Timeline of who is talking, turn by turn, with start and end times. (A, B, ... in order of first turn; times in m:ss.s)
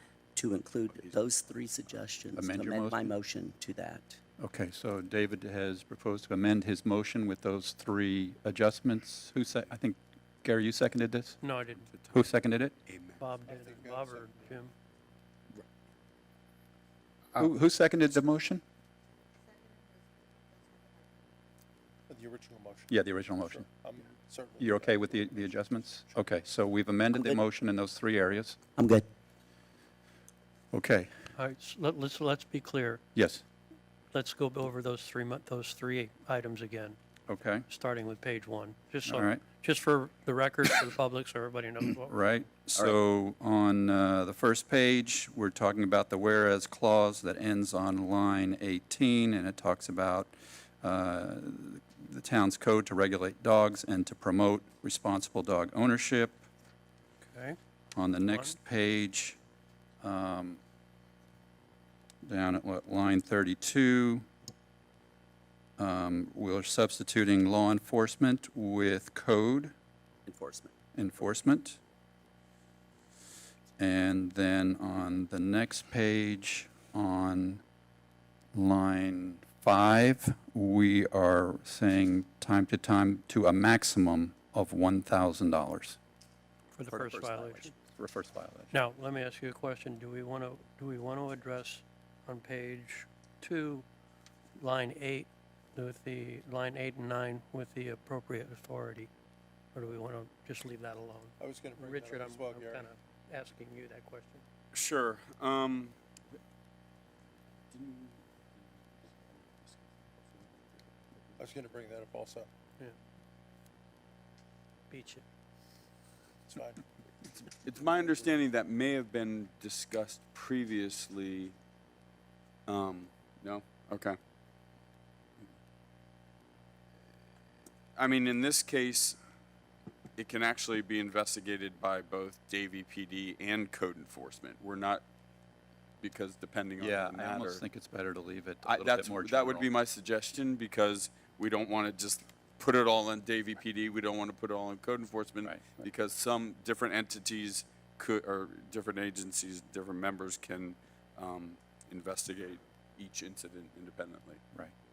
0:00.4-0:04.2 A
0:02.4-0:03.1 B
0:04.4-0:11.4 B
0:11.4-0:11.9 C
0:11.9-0:12.2 D
0:12.1-0:12.7 B
0:12.8-0:13.2 D
0:13.2-0:14.7 C
0:13.4-0:14.5 E
0:17.4-0:18.6 B
0:22.1-0:23.0 E
0:22.9-0:23.7 B
0:23.5-0:25.4 E
0:24.6-0:28.6 B
0:27.1-0:27.4 A
0:28.8-0:29.1 A
0:30.7-0:31.2 B
0:31.4-0:33.0 C
0:33.1-0:33.4 B
0:34.1-0:37.0 C
0:37.3-0:37.6 B
0:37.7-0:42.1 C
0:39.0-0:39.4 B
0:42.0-0:56.4 B
0:57.3-0:57.6 C
0:57.9-0:59.4 B
0:58.3-0:58.6 C
1:00.0-1:00.6 B
1:02.2-1:04.2 B
1:05.8-1:09.7 B
1:10.2-1:10.7 A
1:10.9-1:11.8 B
1:13.8-1:17.6 B
1:18.5-1:26.0 B
1:26.7-1:27.7 C
1:26.9-1:27.7 A
1:27.9-1:28.7 B
1:28.7-1:33.8 C
1:34.6-1:39.1 C
1:39.7-1:44.4 C
1:41.4-1:42.9 E
1:44.7-1:45.9 D
1:47.7-1:48.2 D
1:49.0-1:50.7 D
1:51.4-1:52.5 E
1:54.9-1:55.2 C
1:56.5-1:56.8 E
1:57.2-2:01.5 D
2:02.7-2:04.2 D
2:08.0-2:09.2 D
2:10.2-2:15.0 D
2:16.0-2:17.6 D
2:16.8-2:19.7 B
2:18.6-2:34.4 D
2:25.4-2:25.8 B